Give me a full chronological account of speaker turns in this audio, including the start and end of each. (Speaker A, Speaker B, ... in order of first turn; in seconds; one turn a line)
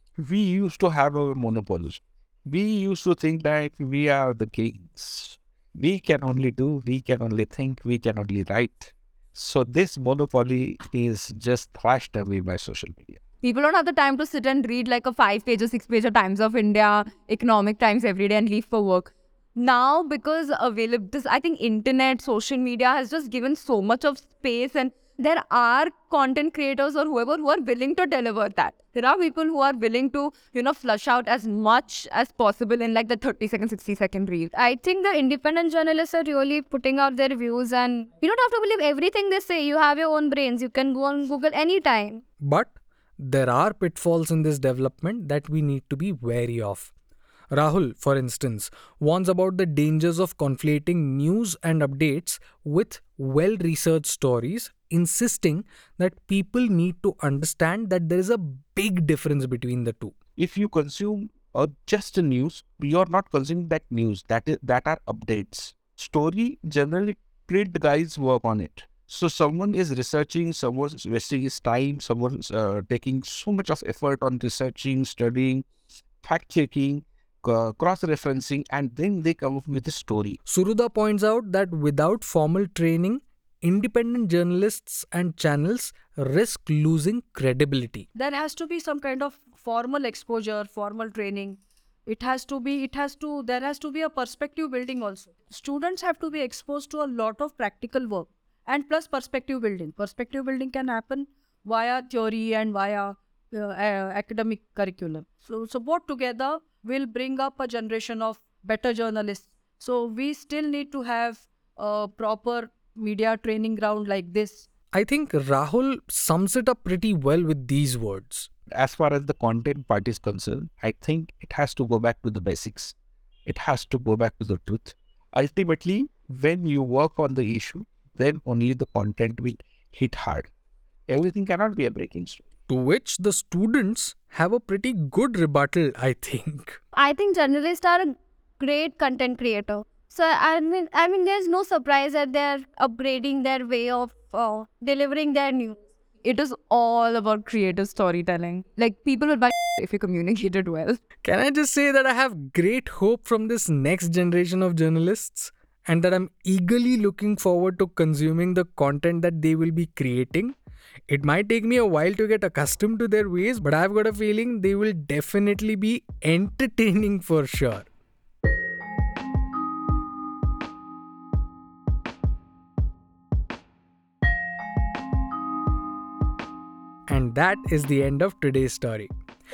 Speaker A: 0.2-13.2
Speaker B: 13.4-34.5
Speaker C: 34.5-42.2
Speaker D: 42.4-46.9
Speaker D: 47.5-60.1
Speaker A: 60.4-75.7
Speaker A: 76.2-80.4
Speaker D: 80.5-88.1
Speaker E: 88.2-114.7
Speaker D: 114.9-118.5
Speaker A: 118.7-123.0
Speaker A: 123.5-130.5
Speaker A: 131.1-132.4
Speaker D: 132.7-136.8
Speaker C: 136.9-145.8
Speaker B: 146.2-151.0
Speaker D: 151.2-160.6
Speaker D: 161.1-167.9
Speaker D: 177.1-179.1